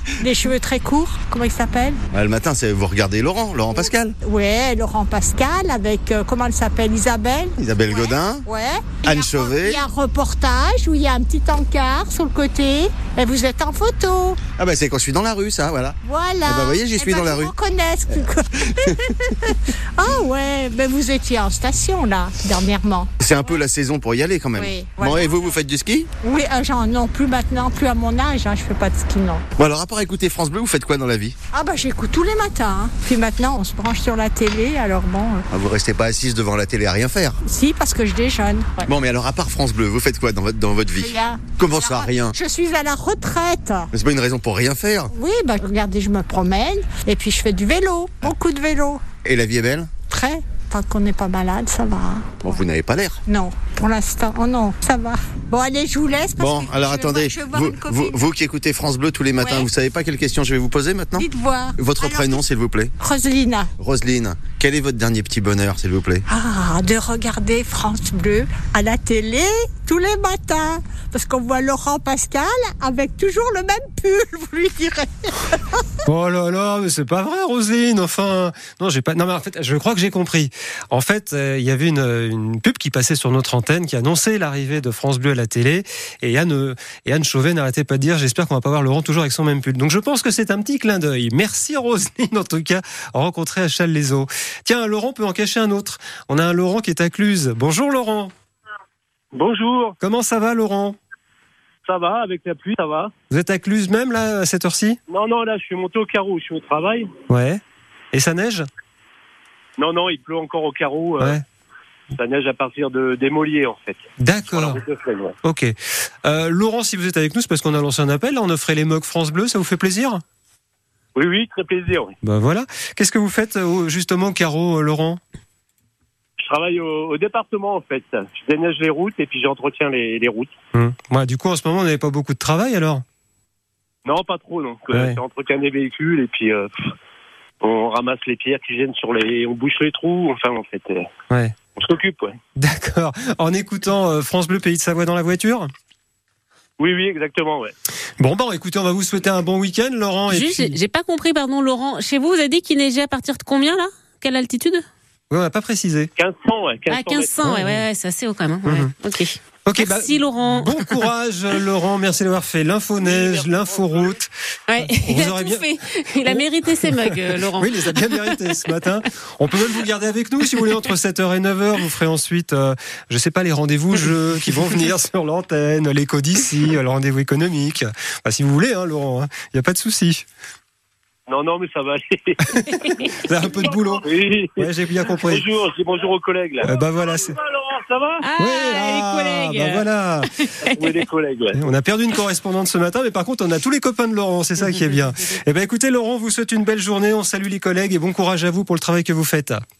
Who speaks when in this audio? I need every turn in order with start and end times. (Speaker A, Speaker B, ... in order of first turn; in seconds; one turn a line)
Speaker A: 0.2-2.0
Speaker B: 2.1-4.2
Speaker A: 3.7-14.4
Speaker B: 7.6-8.4
Speaker B: 9.0-9.8
Speaker B: 14.6-17.5
Speaker A: 16.0-23.1
Speaker B: 23.2-26.1
Speaker A: 24.5-25.6
Speaker A: 26.2-29.4
Speaker B: 29.6-31.4
Speaker A: 31.5-35.5
Speaker B: 35.5-37.4
Speaker A: 37.4-38.9
Speaker B: 38.8-42.3
Speaker A: 41.0-43.9
Speaker B: 43.9-45.1
Speaker A: 45.1-49.0
Speaker B: 49.2-49.9
Speaker A: 50.1-52.6
Speaker B: 52.4-53.2
Speaker A: 53.3-58.3
Speaker B: 56.4-62.9
Speaker A: 59.4-59.7
Speaker A: 61.1-62.4
Speaker A: 63.0-63.7
Speaker B: 63.8-66.2
Speaker A: 66.3-76.0
Speaker C: 76.0-98.3
Speaker D: 99.3-99.9
Speaker C: 100.0-101.0
Speaker D: 101.8-103.1
Speaker C: 103.3-105.0
Speaker D: 105.1-107.1
Speaker C: 107.3-107.6
Speaker C: 108.1-108.7
Speaker D: 109.8-111.4
Speaker D: 112.1-115.3
Speaker C: 114.2-114.8
Speaker C: 115.4-120.2
Speaker D: 121.1-122.1
Speaker C: 122.2-125.2
Speaker D: 126.4-130.5
Speaker C: 130.7-133.0
Speaker D: 134.0-136.9
Speaker C: 134.9-135.2
Speaker D: 137.6-141.1
Speaker C: 141.3-141.5
Speaker D: 141.8-142.3
Speaker C: 142.6-145.7
Speaker D: 146.8-147.7
Speaker C: 148.2-150.7
Speaker E: 150.3-154.8
Speaker C: 155.3-156.1
Speaker D: 156.2-157.4
Speaker E: 156.9-161.1
Speaker C: 157.4-157.8
Speaker C: 158.6-158.9
Speaker C: 159.6-165.7
Speaker D: 163.0-164.1
Speaker E: 164.7-168.7
Speaker C: 166.2-180.2
Speaker D: 181.3-182.5
Speaker C: 182.5-184.1
Speaker E: 182.8-183.2
Speaker D: 183.6-184.7
Speaker C: 184.6-185.4
Speaker D: 185.2-188.2
Speaker C: 186.6-187.3
Speaker E: 188.2-191.0
Speaker C: 188.4-190.3
Speaker D: 190.7-191.6
Speaker C: 191.5-199.6